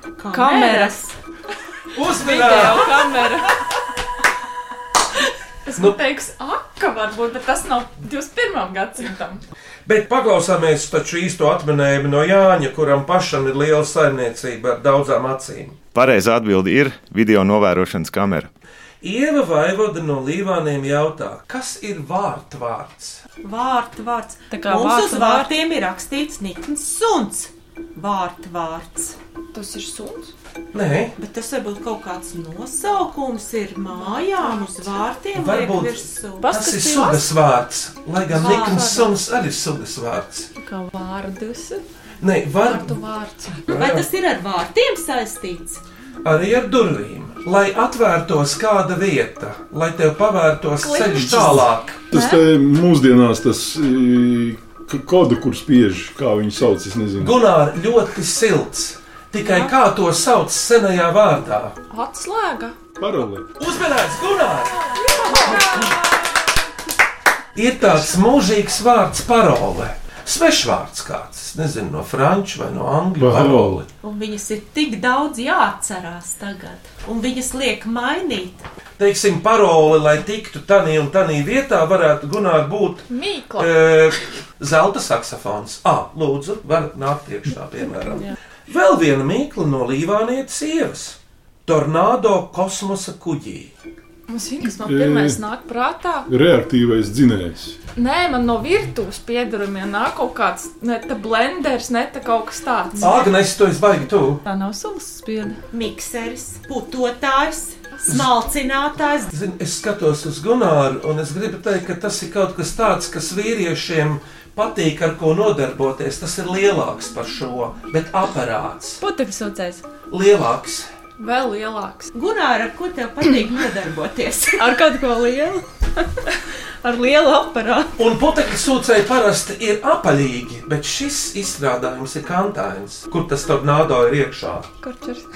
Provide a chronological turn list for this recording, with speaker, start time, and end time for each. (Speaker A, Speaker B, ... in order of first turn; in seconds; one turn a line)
Speaker A: 0.2-1.1
Speaker B: 0.3-1.0
Speaker C: 1.9-3.0
Speaker B: 2.2-3.5
Speaker D: 2.4-2.8
Speaker D: 5.6-9.4
Speaker C: 9.8-15.8
Speaker E: 15.9-18.5
Speaker C: 19.0-23.2
Speaker A: 23.4-29.1
Speaker B: 24.5-25.5
Speaker D: 29.5-30.3
Speaker C: 30.7-31.1
Speaker A: 31.2-37.2
Speaker D: 34.0-34.8
Speaker C: 35.3-40.5
Speaker B: 36.4-37.1
Speaker D: 38.3-39.1
Speaker A: 38.4-38.8
Speaker B: 40.6-41.6
Speaker C: 42.2-43.0
Speaker D: 42.6-43.7
Speaker C: 43.6-44.0
Speaker A: 43.7-45.8
Speaker C: 46.2-52.0
Speaker D: 50.8-52.4
Speaker F: 51.3-57.4
Speaker C: 57.2-61.8
Speaker D: 59.4-59.7
Speaker D: 61.9-62.7
Speaker F: 63.0-63.5
Speaker C: 63.6-66.0
Speaker D: 64.8-66.3
Speaker C: 67.5-73.9
Speaker F: 73.2-73.8
Speaker A: 74.0-78.7
Speaker C: 79.0-93.7
Speaker D: 83.1-83.9
Speaker D: 94.3-96.3
Speaker F: 94.8-95.4
Speaker F: 96.3-97.8
Speaker D: 98.0-103.2
Speaker C: 103.0-104.4
Speaker B: 104.4-105.6
Speaker A: 105.7-109.3
Speaker C: 109.3-119.0
Speaker B: 119.0-119.8
Speaker C: 120.1-120.9
Speaker D: 121.2-122.1
Speaker A: 122.1-124.7
Speaker B: 124.6-126.0
Speaker B: 126.8-127.9
Speaker C: 128.0-134.7
Speaker B: 134.8-135.2